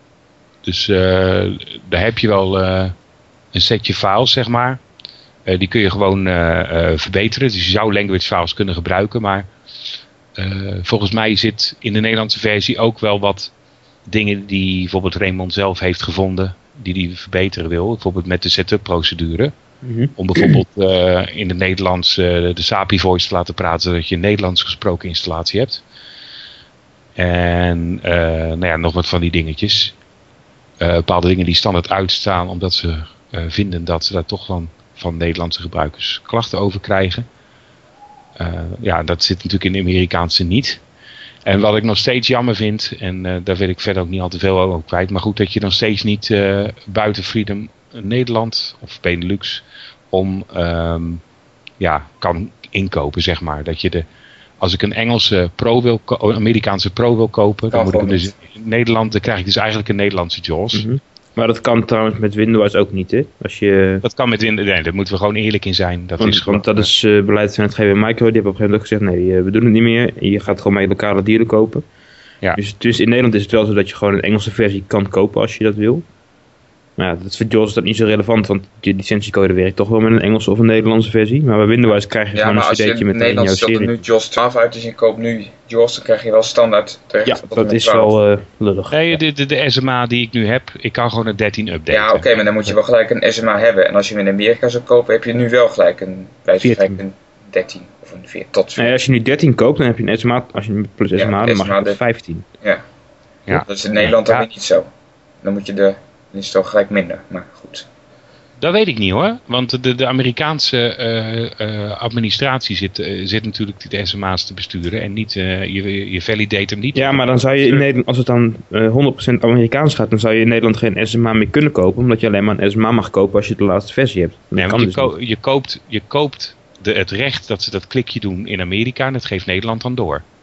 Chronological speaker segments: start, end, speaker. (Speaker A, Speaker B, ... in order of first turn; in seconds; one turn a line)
Speaker A: 0.6-3.0
Speaker A: 3.5-4.8
Speaker A: 5.5-9.5
Speaker A: 10.4-13.5
Speaker A: 14.1-19.5
Speaker B: 19.8-20.6
Speaker A: 20.2-25.8
Speaker A: 27.2-29.9
Speaker A: 30.8-37.3
Speaker A: 38.4-40.8
Speaker A: 41.5-51.2
Speaker A: 51.8-54.0
Speaker A: 54.6-60.9
Speaker C: 57.7-58.3
Speaker B: 60.7-64.0
Speaker A: 64.0-66.9
Speaker B: 66.2-71.8
Speaker B: 72.5-76.0
Speaker B: 77.0-84.0
Speaker C: 82.3-88.1
Speaker B: 87.2-89.2
Speaker A: 88.9-92.7
Speaker C: 91.9-98.9
Speaker A: 96.6-97.0
Speaker B: 98.8-102.5
Speaker C: 101.2-102.0
Speaker A: 103.5-104.5
Speaker C: 103.5-104.9
Speaker C: 105.4-107.9
Speaker A: 108.6-117.9
Speaker B: 117.0-125.1
Speaker A: 124.6-130.2